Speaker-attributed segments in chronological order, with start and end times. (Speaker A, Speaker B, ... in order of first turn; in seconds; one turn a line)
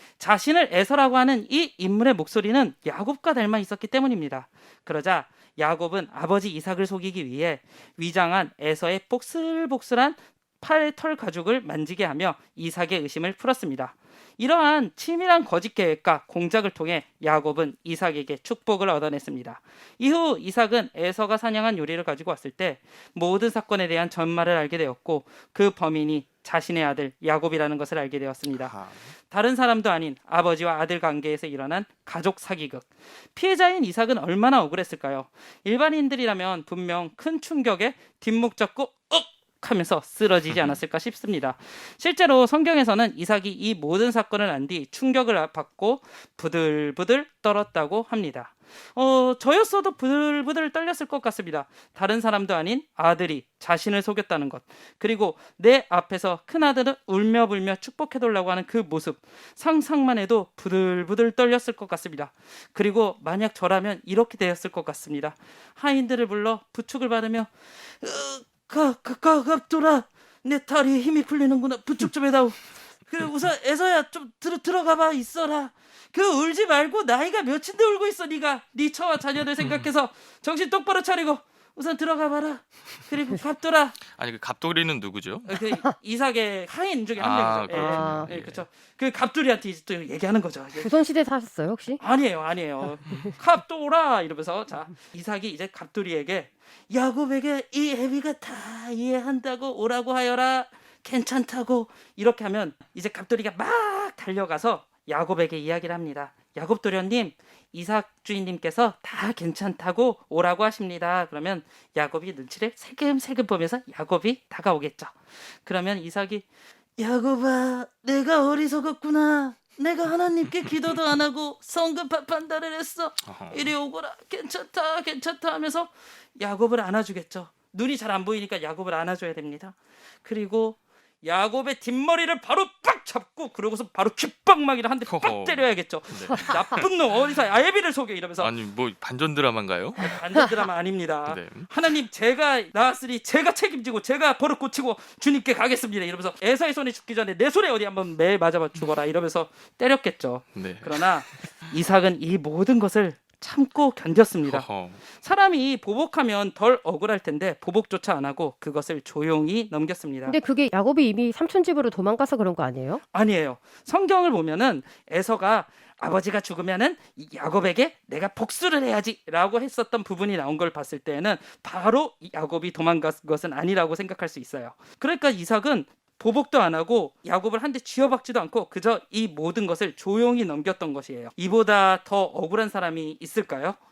Speaker A: 0.2-28.7
Speaker B: 28.5-29.1
Speaker A: 29.3-84.0
Speaker B: 79.6-79.9
Speaker B: 84.1-85.6
Speaker A: 85.5-90.9
Speaker B: 87.2-88.7
Speaker C: 87.7-88.3
Speaker C: 90.8-92.0
Speaker A: 92.0-116.5
Speaker A: 117.0-138.5
Speaker B: 123.2-123.7
Speaker B: 135.1-136.9
Speaker B: 138.4-140.2
Speaker A: 140.0-160.4
Speaker B: 141.3-141.7
Speaker B: 150.6-151.5
Speaker B: 154.4-155.0
Speaker C: 160.3-163.0
Speaker A: 163.1-183.8